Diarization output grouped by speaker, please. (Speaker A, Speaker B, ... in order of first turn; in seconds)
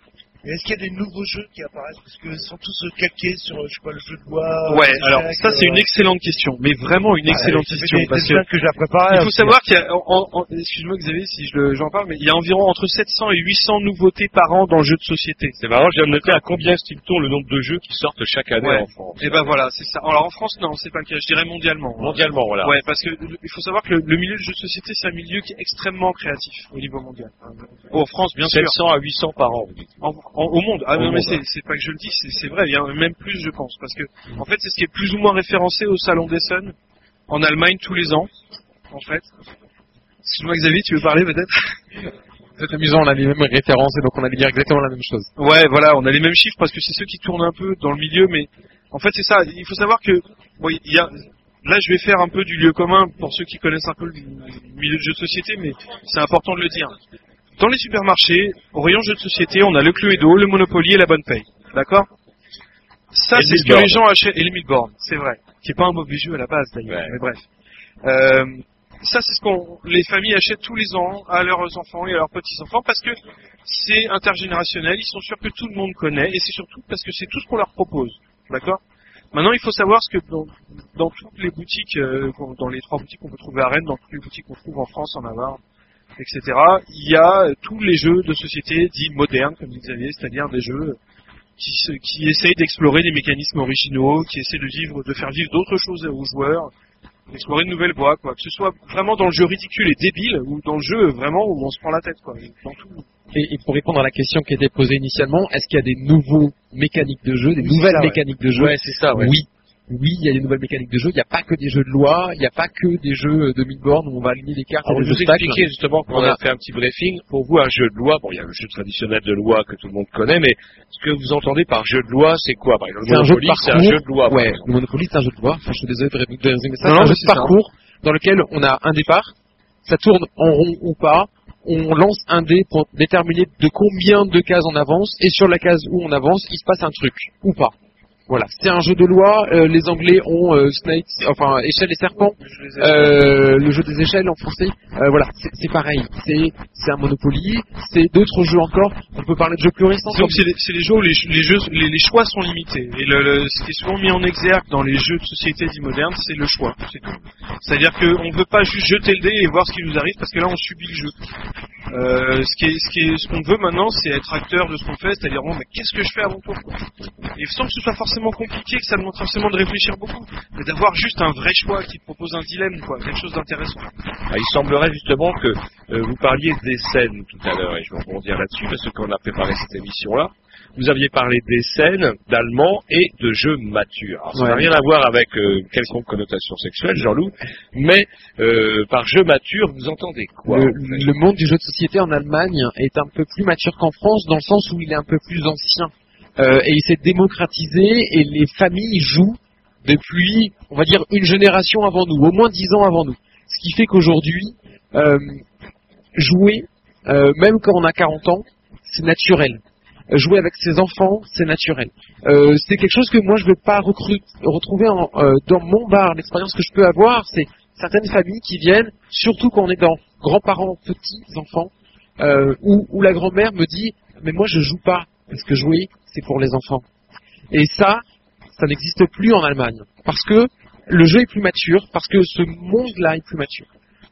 Speaker A: 0.4-5.9, 7.2-9.6, 107.6-108.2
Speaker B: 4.7-8.4, 9.1-15.6, 18.6-28.8, 30.0-36.8, 37.3-38.3, 38.9-39.3, 40.2-41.8, 45.4-57.0, 57.6-62.1, 63.1-67.4, 68.0-78.8, 79.3-85.6, 86.2-91.0, 91.6-96.7, 97.3-103.1, 126.8-127.6, 142.4-143.2, 150.1-157.0, 157.6-161.2, 161.9-173.9
Speaker C: 15.6-19.6, 22.0-22.8, 27.9-30.2, 30.9-31.4, 63.3-64.0, 66.9-67.2, 108.5-109.4, 114.8-124.7, 174.3-191.1
Speaker D: 42.6-45.3, 103.3-116.4, 123.0-129.3, 129.8-137.7, 138.3-150.4, 184.3-184.7, 190.5-205.4, 206.2-226.8, 227.5-228.0, 228.5-233.7